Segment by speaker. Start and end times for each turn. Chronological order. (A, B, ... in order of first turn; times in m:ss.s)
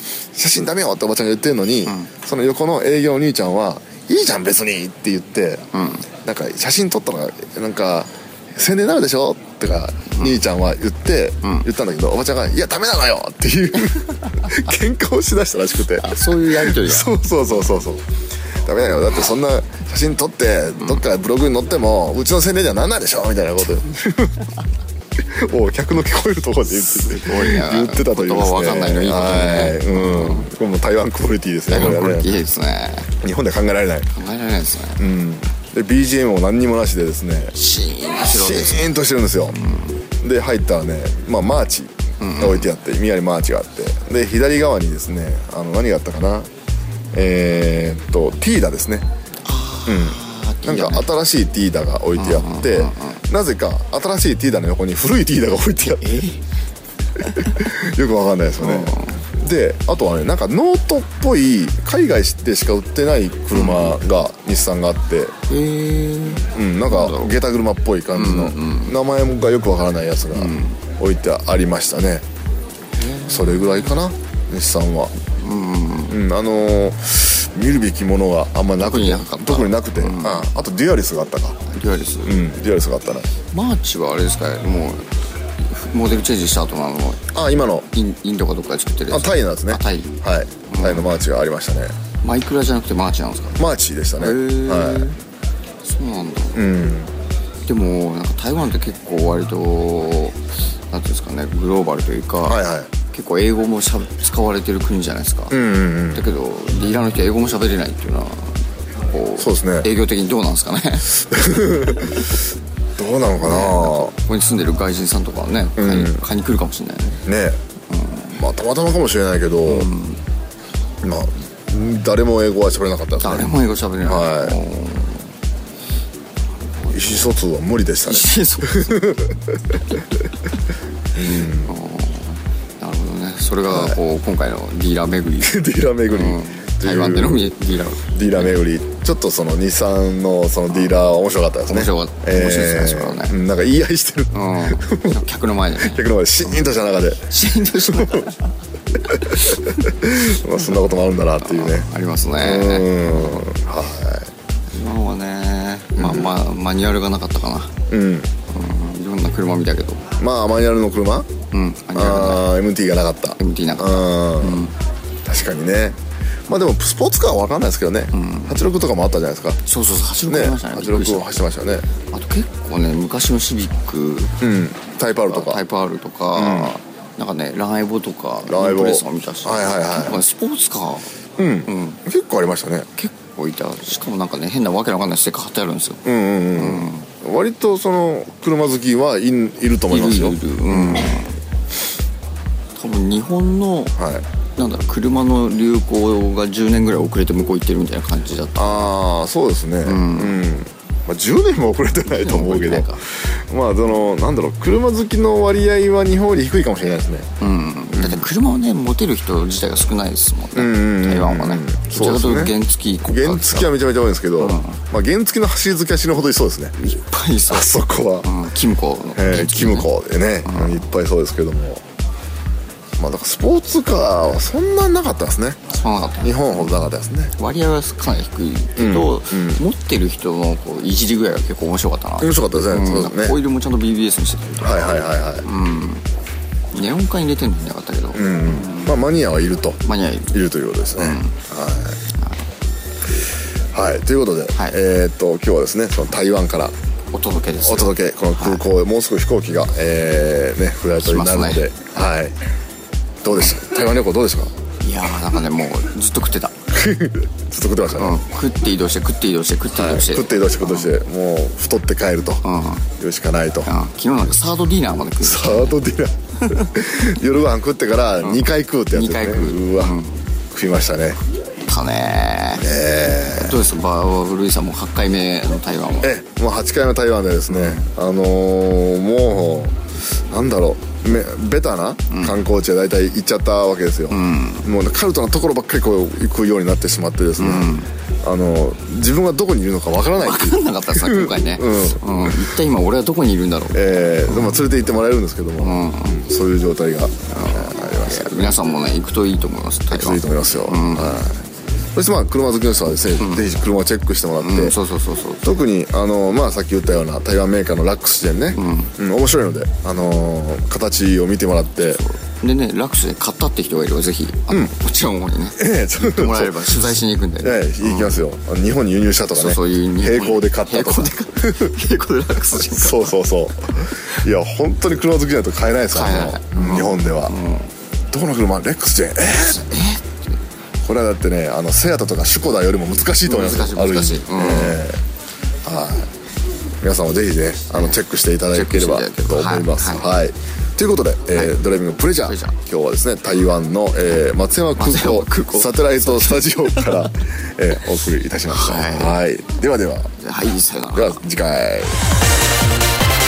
0:00.3-0:05.7 A
0:05.7-0:06.1 B
0:06.2-0:18.0 A
0:11.4-0:11.7 B
0:16.0-0:17.1 B
0:18.6-0:24.5 A
0:25.2-0:32.4 A
0:26.9-0:30.5 B
0:31.7-0:33.1 B
0:33.2-0:34.1 A
0:34.1-0:35.0 B
0:35.0-0:37.5 A
0:37.5-0:38.9 B
0:38.2-0:39.6 A
0:39.5-0:40.0 B
0:40.2-0:46.5 A
0:42.2-0:42.7 B
0:47.1-0:49.1 A
0:49.4-0:51.1 B
0:49.9-0:56.3 A
0:52.2-0:53.2 B
0:55.9-0:56.4 B
0:57.2-1:05.4 A
0:57.2-0:57.7 B
0:58.6-0:59.2 B
1:03.5-1:04.0 B
1:05.5-1:07.4 B
1:06.5-1:12.2 A
1:08.1-1:09.0 B
1:10.3-1:10.8 B
1:12.9-1:14.0 B
1:13.3-1:15.1 A
1:15.4-1:16.2 B
1:16.1-1:21.6 A
1:18.8-1:20.5 B
1:21.7-1:22.4 B
1:22.2-1:23.3 A
1:23.5-1:25.1 B
1:25.6-1:27.3 B
1:27.3-1:27.9 A
1:27.9-1:31.1 B
1:29.1-1:32.0 A
1:32.2-1:33.6 B
1:33.6-1:35.1 A
1:34.2-1:35.2 B
1:35.8-1:36.6 B
1:36.6-1:37.1 A
1:37.7-1:45.6 B
1:42.4-1:42.9 A
1:45.5-1:46.3 A
1:46.1-1:51.2 B
1:49.4-1:49.9 A
1:51.1-1:52.3 A
1:53.0-1:54.1 A
1:53.4-1:57.2 B
1:55.8-1:56.2 A
1:57.3-1:57.6 A
1:57.9-1:58.4 B
1:58.4-1:59.9 A
1:59.7-2:00.2 B
2:01.0-2:04.6 A
2:03.2-2:05.3 B
2:06.8-2:07.3 B
2:06.9-2:10.0 A
2:08.1-2:09.2 B
2:11.2-2:11.7 A
2:11.2-2:18.6 B
2:13.7-2:14.0 A
2:15.4-2:17.5 A
2:18.1-2:25.2 A
2:20.7-2:21.0 B
2:21.7-2:23.4 B
2:24.3-2:26.1 B
2:25.8-2:28.3 A
2:27.3-2:28.5 B
2:29.0-2:34.3 A
2:29.1-2:29.9 B
2:31.4-2:33.5 B
2:34.7-2:37.8 B
2:36.0-2:36.3 A
2:37.9-2:38.3 A
2:38.5-2:40.1 B
2:40.2-2:41.3 A
2:41.5-2:42.5 B
2:41.9-2:44.6 A
2:43.4-2:44.7 B
2:45.2-2:49.6 A
2:48.1-2:48.6 B
2:49.6-2:51.3 B
2:50.3-2:51.9 A
2:52.1-2:54.4 B
2:54.4-2:55.6 A
2:55.3-3:01.1 B
2:56.4-2:56.7 A
2:58.4-3:00.2 A
3:01.4-3:02.9 A
3:01.7-3:02.0 B
3:03.0-3:07.1 B
3:06.0-3:11.2 A
3:09.9-3:11.4 B
3:12.8-3:14.0 B
3:14.0-3:14.2 A
3:14.6-3:18.9 B
3:18.6-3:27.3 A
3:19.8-3:20.4 B
3:22.1-3:23.0 B
3:27.4-3:33.8 B
3:27.9-3:28.3 A
3:30.6-3:36.8 A
3:34.4-3:34.8 B
3:36.8-3:37.7 B
3:37.5-3:38.4 A
3:38.2-3:39.9 B
3:39.2-3:41.8 A
3:40.5-3:40.8 B
3:43.0-3:45.6 A
3:45.7-3:46.8 B
3:46.2-3:47.3 A
3:47.4-3:54.9 B
3:48.8-3:49.6 A
3:52.2-3:53.4 A
3:54.6-3:55.4 A
3:55.4-3:56.0 B
3:56.7-3:59.0 B
3:58.1-4:02.0 A
3:59.8-4:00.3 B
4:01.0-4:01.4 B
4:02.2-4:02.4 B
4:03.7-4:06.8 A
4:04.5-4:04.8 B
4:07.1-4:08.7 B
4:07.6-4:12.4 A
4:11.0-4:11.7 B
4:13.2-4:14.5 A
4:14.8-4:16.6 B
4:16.7-4:18.2 A
4:18.0-4:20.9 B
4:19.7-4:22.4 A
4:22.4-4:22.9 B
4:23.0-4:23.7 A
4:23.6-4:25.8 B
4:25.2-4:30.0 A
4:28.2-4:30.2 B
4:30.5-4:31.2 A
4:31.7-4:32.7 B
4:32.6-4:33.6 A
4:33.3-4:36.1 B
4:36.0-4:39.8 A
4:37.5-4:37.9 B
4:40.3-4:52.5 A
4:42.1-4:42.4 B
4:44.1-4:44.7 B
4:47.4-4:47.9 B
4:50.2-4:54.6 B
4:53.7-4:58.6 A
4:55.6-4:56.2 B
4:57.3-5:01.3 B
4:59.9-5:01.4 A
5:01.9-5:04.8 A
5:03.2-5:03.4 B
5:04.4-5:05.6 B
5:05.4-5:12.0 A
5:08.5-5:09.0 B
5:11.8-5:18.2 B
5:15.6-5:16.8 A
5:17.4-5:21.8 A
5:19.4-5:23.2 B
5:22.6-5:27.4 A
5:25.9-5:27.7 B
5:28.1-5:29.7 A
5:29.4-5:30.2 B
5:30.8-5:35.0 A
5:33.2-5:34.8 B
5:35.6-5:36.1 A
5:36.8-5:50.1 A
5:37.7-5:38.0 B
5:38.5-5:40.1 B
5:41.3-5:41.6 B
5:42.2-5:42.6 B
5:44.8-5:47.1 B
5:48.5-5:49.2 B
5:50.2-5:51.2 B
5:51.0-5:52.1 A